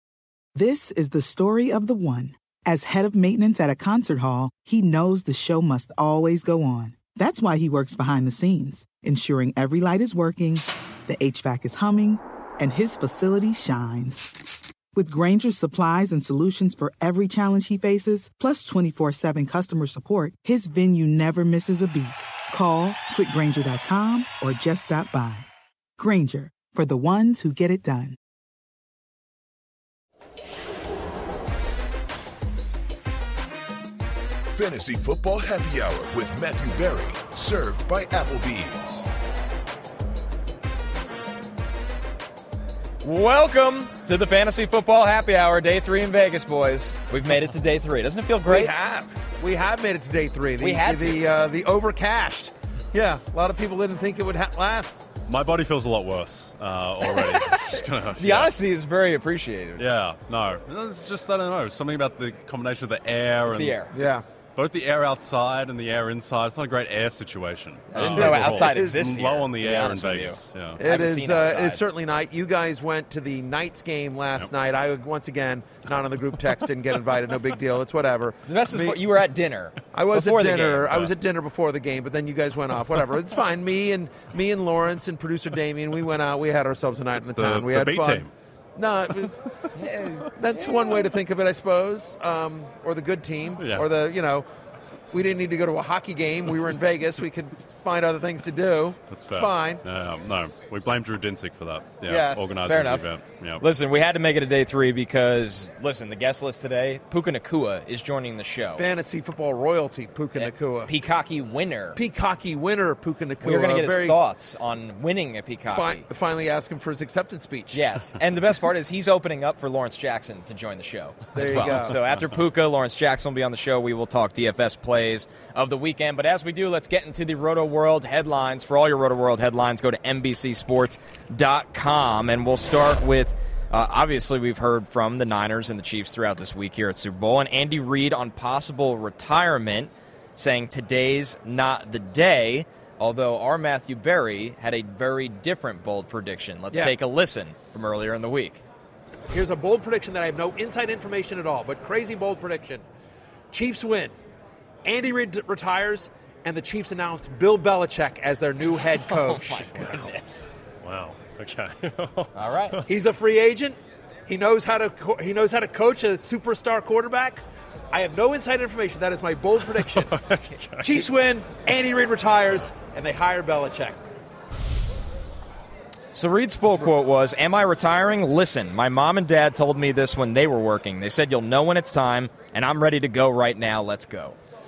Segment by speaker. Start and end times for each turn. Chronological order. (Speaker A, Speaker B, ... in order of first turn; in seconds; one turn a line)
Speaker A: 0.5-25.5
Speaker A: 26.0-28.2
Speaker B: 34.5-39.1
Speaker C: 43.0-48.7
Speaker D: 48.5-55.0
Speaker C: 50.6-51.2
Speaker E: 55.3-58.5
Speaker C: 57.1-59.8
Speaker E: 59.8-70.8
Speaker C: 63.5-64.0
Speaker D: 63.9-64.2
Speaker C: 67.9-71.8
Speaker D: 68.0-69.0
Speaker D: 70.8-79.0
Speaker C: 78.5-81.0
Speaker D: 79.9-89.3
Speaker E: 87.3-88.3
Speaker C: 89.8-90.7
Speaker D: 90.3-94.5
Speaker E: 93.6-93.9
Speaker D: 95.1-99.8
Speaker E: 99.1-103.6
Speaker D: 102.0-102.6
Speaker C: 102.6-103.1
Speaker C: 103.6-108.8
Speaker D: 108.8-110.9
Speaker C: 110.3-112.0
Speaker D: 111.9-114.3
Speaker C: 113.4-116.0
Speaker D: 115.7-117.8
Speaker C: 117.7-148.6
Speaker D: 121.3-122.0
Speaker D: 149.3-152.8
Speaker D: 153.5-154.1
Speaker D: 154.8-160.1
Speaker C: 159.0-160.5
Speaker E: 160.8-162.3
Speaker C: 162.3-162.8
Speaker D: 162.9-170.1
Speaker E: 169.7-171.1
Speaker D: 170.8-174.0
Speaker C: 176.1-184.4